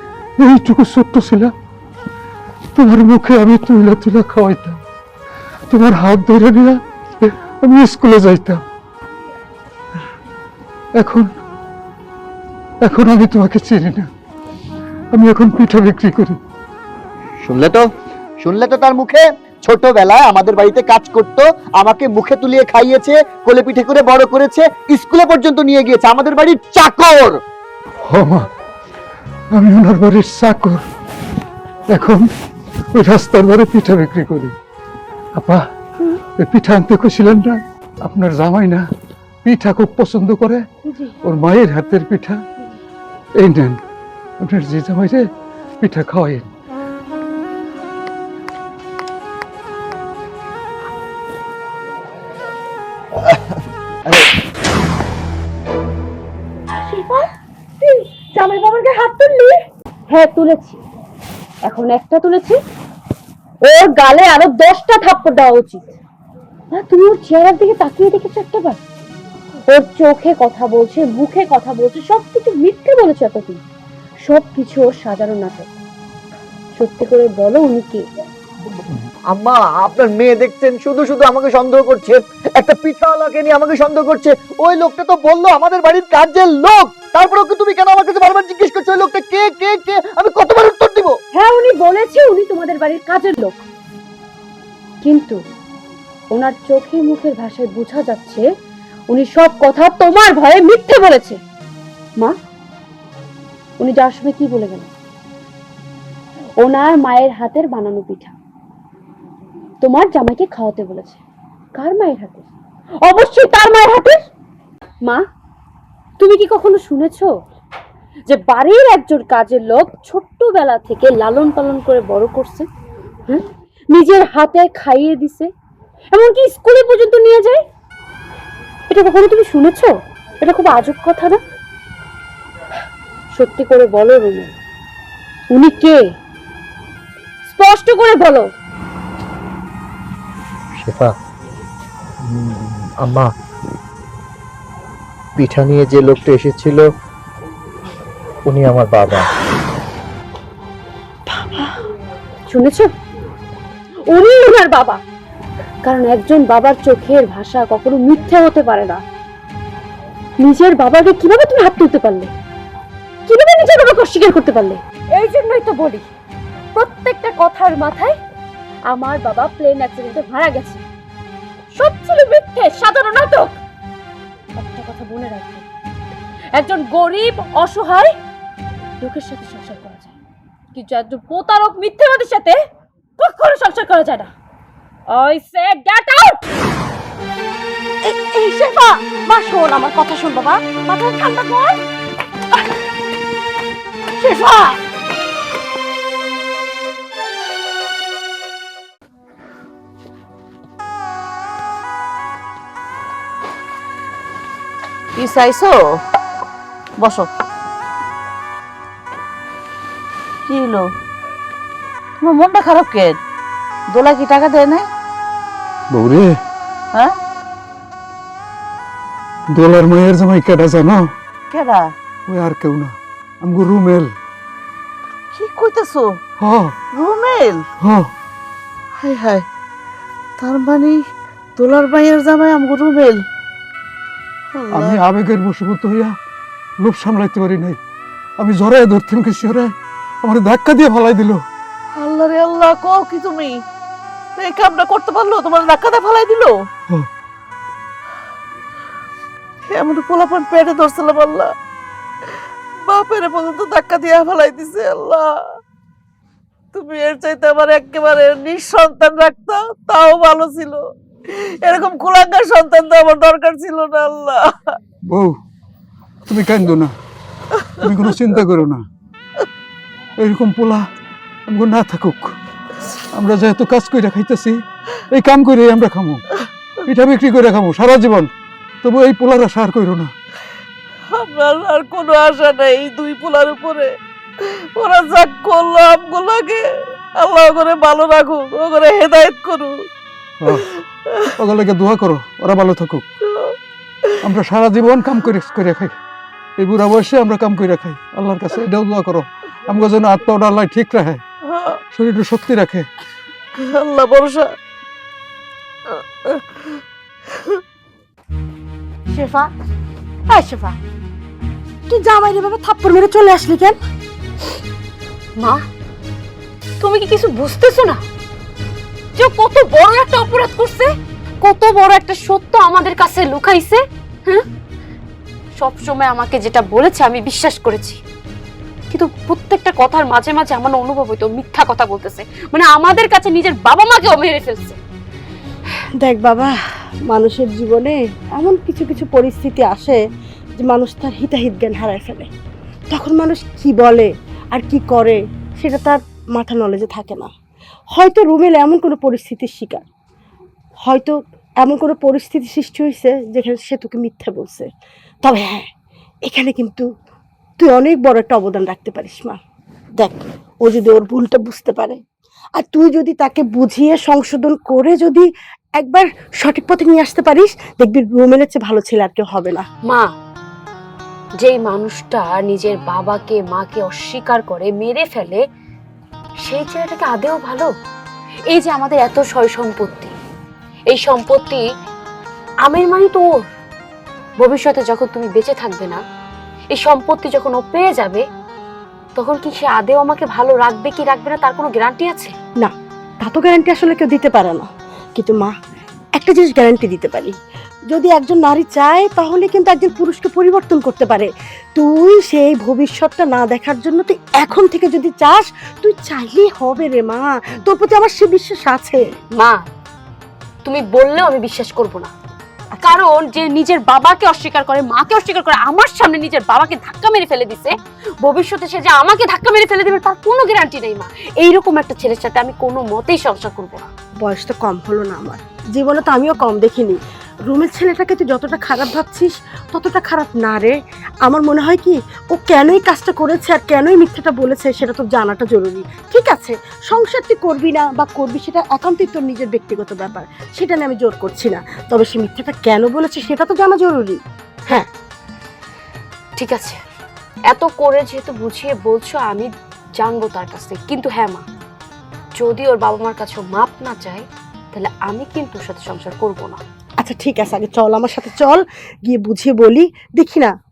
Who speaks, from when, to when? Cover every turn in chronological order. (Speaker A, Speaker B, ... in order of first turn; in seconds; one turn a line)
Speaker A: 0.4-1.5
Speaker A: 2.8-4.8
Speaker A: 5.7-8.6
Speaker A: 11.0-11.3
Speaker A: 12.8-14.1
Speaker A: 15.1-16.4
Speaker B: 17.4-17.9
Speaker B: 18.4-27.4
Speaker A: 28.1-28.5
Speaker A: 29.5-30.8
Speaker A: 31.9-32.3
Speaker A: 32.9-34.5
Speaker A: 35.4-35.7
Speaker A: 36.4-38.9
Speaker A: 39.4-40.6
Speaker A: 41.2-42.4
Speaker A: 43.4-43.8
Speaker A: 44.4-45.3
Speaker A: 45.8-46.5
Speaker B: 53.2-54.3
Speaker C: 56.9-57.2
Speaker D: 57.8-59.5
Speaker C: 58.8-59.4
Speaker C: 60.1-60.8
Speaker C: 61.6-62.6
Speaker C: 63.6-65.8
Speaker C: 66.7-68.8
Speaker C: 69.7-73.6
Speaker C: 74.3-75.7
Speaker C: 76.8-78.0
Speaker B: 79.3-91.2
Speaker C: 91.3-93.6
Speaker C: 95.0-95.4
Speaker C: 96.3-98.5
Speaker C: 99.1-101.4
Speaker C: 103.8-104.9
Speaker C: 106.6-108.3
Speaker C: 109.8-111.2
Speaker C: 111.8-112.5
Speaker C: 113.0-114.2
Speaker C: 116.2-117.3
Speaker C: 118.3-122.7
Speaker C: 123.3-125.5
Speaker C: 126.1-127.6
Speaker C: 128.9-131.4
Speaker C: 133.3-134.5
Speaker C: 135.5-136.0
Speaker C: 137.5-138.5
Speaker B: 140.8-141.1
Speaker B: 142.2-143.3
Speaker B: 145.4-146.9
Speaker B: 148.5-149.3
Speaker D: 151.3-151.7
Speaker C: 152.5-152.9
Speaker C: 154.1-155.0
Speaker C: 155.8-159.0
Speaker C: 160.4-162.3
Speaker C: 163.3-166.1
Speaker C: 166.7-168.2
Speaker C: 168.9-170.8
Speaker C: 171.8-173.6
Speaker C: 174.6-175.6
Speaker C: 176.5-178.1
Speaker C: 179.0-180.1
Speaker C: 180.7-182.6
Speaker C: 183.2-184.3
Speaker C: 185.1-186.4
Speaker D: 188.0-191.6
Speaker C: 190.9-191.6
Speaker D: 194.2-194.8
Speaker E: 205.2-206.0
Speaker E: 207.0-207.3
Speaker E: 210.5-210.9
Speaker E: 212.2-213.2
Speaker E: 213.9-214.8
Speaker A: 215.9-216.4
Speaker A: 219.5-221.1
Speaker E: 221.5-221.9
Speaker A: 222.3-224.1
Speaker E: 225.3-226.2
Speaker A: 226.4-226.8
Speaker E: 226.9-227.6
Speaker A: 227.8-228.1
Speaker E: 229.0-229.4
Speaker E: 230.4-231.0
Speaker E: 231.6-233.2
Speaker E: 234.5-235.0
Speaker A: 234.7-236.1
Speaker A: 236.8-237.8
Speaker A: 238.4-239.7
Speaker A: 240.2-241.4
Speaker E: 242.0-243.6
Speaker E: 244.4-246.6
Speaker E: 249.7-251.5
Speaker E: 252.9-255.4
Speaker E: 256.7-264.7
Speaker A: 265.1-265.4
Speaker A: 266.3-266.9
Speaker A: 267.8-268.8
Speaker A: 270.2-270.9
Speaker A: 271.5-272.4
Speaker A: 273.1-276.2
Speaker A: 276.9-278.3
Speaker A: 278.8-280.1
Speaker E: 281.1-286.6
Speaker E: 287.2-289.8
Speaker A: 290.4-290.6
Speaker A: 291.4-293.1
Speaker A: 294.2-295.9
Speaker A: 296.6-301.2
Speaker E: 301.4-301.8
Speaker A: 301.9-302.9
Speaker E: 303.6-304.5
Speaker E: 305.9-306.8
Speaker D: 309.1-309.5
Speaker D: 310.3-310.8
Speaker D: 311.9-313.8
Speaker C: 316.8-318.0
Speaker C: 319.1-324.4
Speaker C: 325.6-328.0
Speaker C: 328.9-334.8
Speaker D: 336.0-336.5
Speaker D: 337.1-340.0
Speaker D: 340.6-342.3
Speaker D: 342.9-347.3
Speaker D: 347.9-349.8
Speaker D: 350.8-354.7
Speaker D: 355.2-355.7
Speaker D: 356.2-356.9
Speaker D: 357.6-359.4
Speaker D: 360.0-362.0
Speaker D: 362.6-365.3
Speaker D: 365.8-369.6
Speaker C: 371.4-375.4
Speaker C: 376.4-377.7
Speaker C: 378.5-380.1
Speaker C: 380.9-381.6
Speaker C: 382.6-383.2
Speaker C: 384.4-386.0
Speaker C: 386.7-388.2
Speaker C: 389.1-392.3
Speaker D: 392.6-395.5
Speaker D: 396.2-397.4
Speaker D: 397.9-409.1
Speaker C: 409.4-409.6
Speaker C: 410.6-412.1
Speaker C: 412.8-423.9
Speaker D: 424.2-444.9
Speaker C: 446.4-446.8
Speaker C: 447.5-451.4
Speaker C: 452.4-456.6
Speaker D: 457.0-460.5